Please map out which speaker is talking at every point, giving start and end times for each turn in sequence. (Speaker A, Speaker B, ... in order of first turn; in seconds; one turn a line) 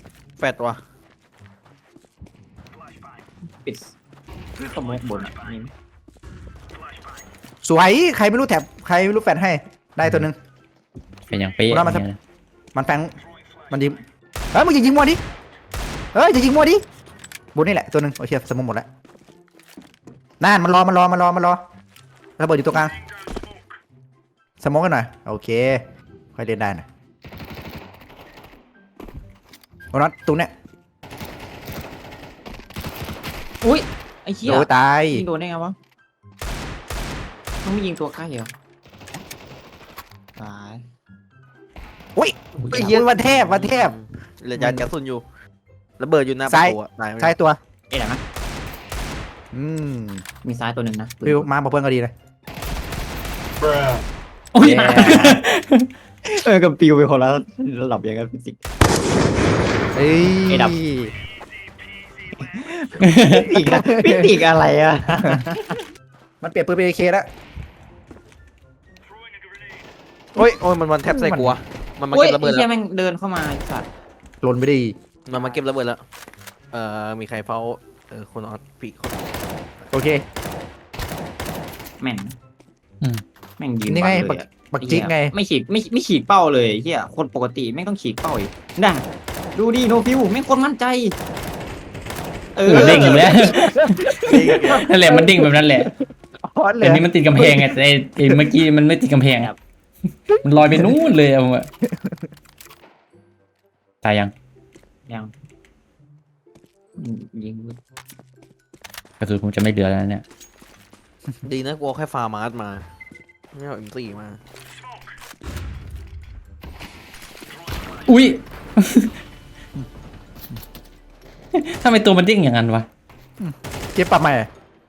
Speaker A: 0.4-0.8
Speaker B: 3.6-4.0
Speaker B: 4.6-5.7
Speaker C: 7.6-10.4
Speaker D: 11.3-12.2
Speaker C: 11.7-12.0
Speaker C: 12.7-13.1
Speaker C: 13.7-15.2
Speaker C: 16.1-16.8
Speaker C: 17.6-18.9
Speaker C: 20.4-21.6
Speaker C: 22.4-23.0
Speaker C: 24.6-25.8
Speaker C: 26.4-26.9
Speaker C: 29.9-30.5
Speaker B: 33.6-35.8
Speaker C: 34.5-35.3
Speaker B: 37.6-38.5
Speaker B: 40.4-40.9
Speaker C: 42.2-44.0
Speaker B: 42.6-43.0
Speaker A: 42.7-45.2
Speaker C: 44.5-44.9
Speaker A: 46.0-47.3
Speaker C: 46.5-47.6
Speaker B: 47.9-48.2
Speaker C: 49.5-50.2
Speaker B: 50.4-51.5
Speaker C: 51.2-52.1
Speaker D: 54.5-55.4
Speaker C: 54.6-55.3
Speaker B: 54.6-55.4
Speaker B: 56.2-58.6
Speaker C: 59.9-61.1
Speaker B: 60.5-60.8
Speaker B: 63.0-65.8
Speaker D: 63.1-63.4
Speaker C: 63.5-64.3
Speaker C: 66.4-67.3
Speaker A: 70.4-72.7
Speaker C: 71.1-71.6
Speaker B: 72.1-73.9
Speaker C: 74.4-75.0
Speaker A: 75.3-76.0
Speaker B: 75.3-75.6
Speaker A: 76.7-79.2
Speaker C: 79.9-80.2
Speaker B: 82.0-82.4
Speaker B: 83.6-91.2
Speaker C: 83.9-85.3
Speaker B: 92.6-93.3
Speaker D: 92.7-95.9
Speaker A: 92.7-93.1
Speaker C: 93.4-98.5
Speaker A: 94.2-94.8
Speaker D: 96.8-99.5
Speaker C: 100.3-100.9
Speaker D: 100.4-101.7
Speaker C: 101.8-102.3
Speaker D: 104.0-104.3
Speaker B: 105.1-105.3
Speaker B: 107.0-107.8
Speaker D: 109.2-110.2
Speaker A: 111.4-112.8
Speaker A: 113.5-114.4
Speaker D: 118.1-119.1
Speaker D: 121.5-122.9
Speaker C: 123.4-124.5